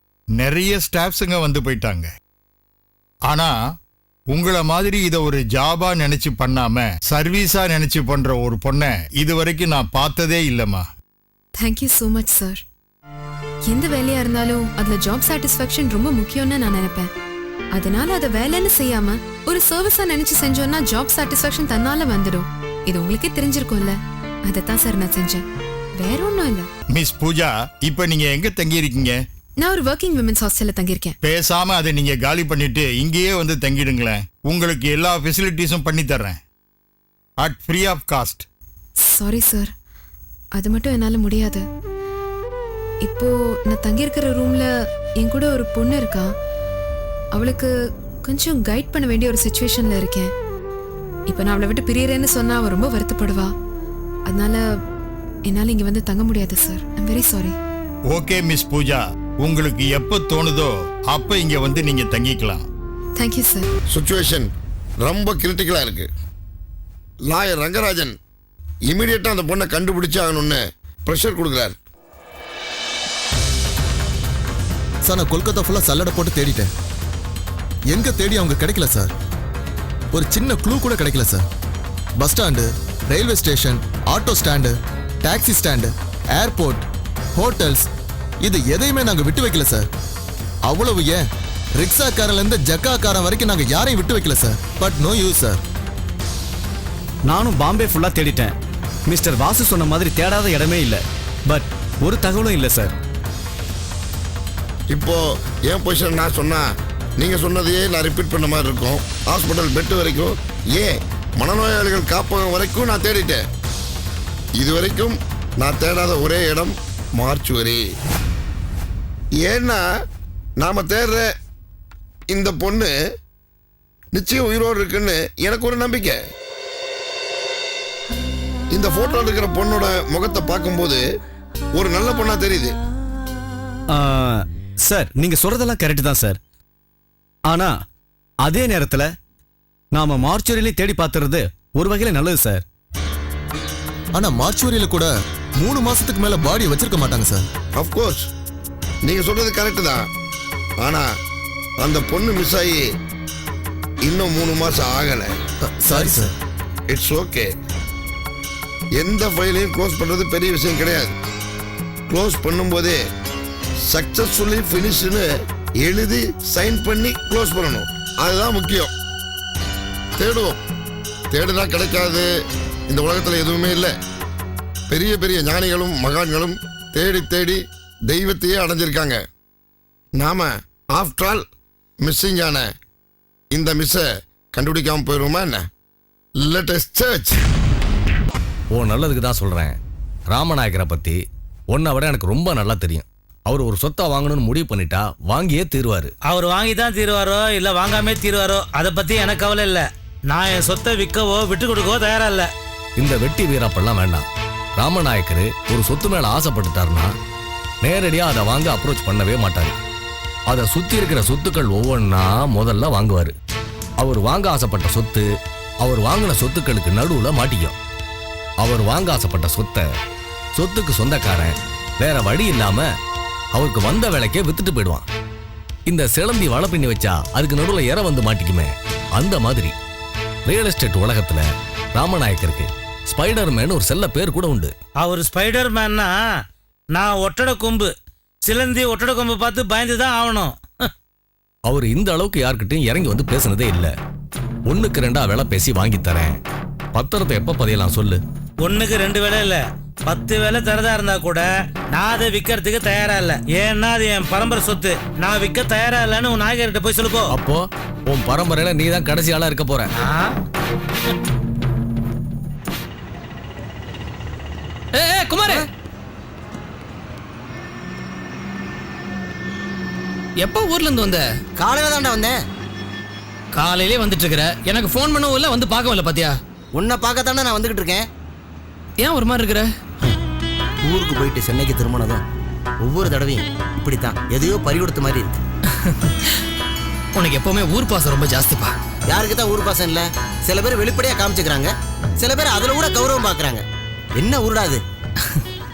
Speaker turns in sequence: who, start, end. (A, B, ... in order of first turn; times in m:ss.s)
0:00.4-0:02.1 A
0:03.3-0:03.6 A
0:04.3-0:10.9 A
0:11.6-0:12.6 B
0:13.7-0:17.1 B
0:17.7-0:25.5 B
0:26.0-0:26.7 B
0:26.9-0:29.2 A
0:29.6-0:31.2 B
0:31.2-0:36.4 A
0:37.4-0:38.5 A
0:39.0-0:39.7 B
0:40.6-0:41.6 B
0:43.0-0:44.7 B
0:45.2-0:46.3 B
0:47.3-0:47.7 B
0:48.2-0:50.3 B
0:51.3-0:53.5 B
0:54.3-0:54.6 B
0:55.5-0:57.6 B
0:58.1-1:02.7 A
1:03.2-1:03.7 B
1:03.9-1:04.5 C
1:05.0-1:06.1 C
1:07.3-1:08.2 C
1:08.9-1:11.8 C
1:15.0-1:16.7 D
1:17.9-1:19.1 D
1:20.1-1:21.4 D
1:22.2-1:27.9 D
1:28.4-1:29.9 D
1:30.7-1:31.2 D
1:31.8-1:35.6 D
1:37.3-1:38.5 E
1:39.1-1:42.9 E
1:44.9-1:46.7 C
1:47.2-1:53.4 C
1:54.6-1:57.8 C
1:59.4-1:59.8 C
2:00.6-2:01.3 C
2:02.3-2:02.9 C
2:04.1-2:06.2 C
2:08.7-2:11.0 C
2:11.8-2:12.8 C
2:14.0-2:16.4 E
2:18.5-2:19.1 E
2:20.0-2:22.6 E
2:24.2-2:27.5 D
2:27.8-2:28.3 C
2:29.0-2:30.0 C
2:30.8-2:31.1 C
2:31.8-2:32.9 C
2:34.0-2:35.3 C
2:35.6-2:36.3 D
2:36.9-2:37.5 C
2:39.0-2:41.2 C
2:42.1-2:43.0 C
2:43.9-2:45.3 C
2:45.8-2:48.9 C
2:50.2-2:50.6 C
2:51.3-2:52.3 C
2:52.9-2:53.9 C
2:54.9-2:59.2 C
3:00.1-3:01.4 C
3:02.0-3:02.7 C
3:03.5-3:05.6 C
3:06.4-3:07.4 C
3:08.8-3:09.8 F
3:10.3-3:11.2 F
3:11.7-3:16.1 F
3:16.2-3:22.5 G
3:23.0-3:24.3 F
3:24.8-3:27.1 F
3:27.8-3:29.8 F
3:30.5-3:33.3 F
3:34.0-3:35.3 F
3:35.8-3:37.8 F
3:38.6-3:39.8 F
3:40.6-3:42.9 F
3:43.6-3:45.0 F
3:45.9-3:49.8 F
3:50.5-3:54.7 F
3:55.0-3:56.3 G
3:56.9-3:57.9 G
3:58.4-4:00.9 G
4:01.7-4:03.9 F
4:04.7-4:06.4 F
4:07.0-4:08.2 F
4:08.6-4:17.4 G
4:17.3-4:19.9 F
4:19.9-4:20.4 G
4:25.0-4:25.6 H
4:30.4-4:31.3 H
4:31.6-4:32.4 I
4:33.6-4:36.4 H
4:36.8-4:38.0 I
4:39.0-4:39.7 H
4:40.8-4:42.2 I
4:42.8-4:45.4 I
4:47.2-4:48.7 H
4:49.1-4:53.6 I
4:54.2-4:54.8 I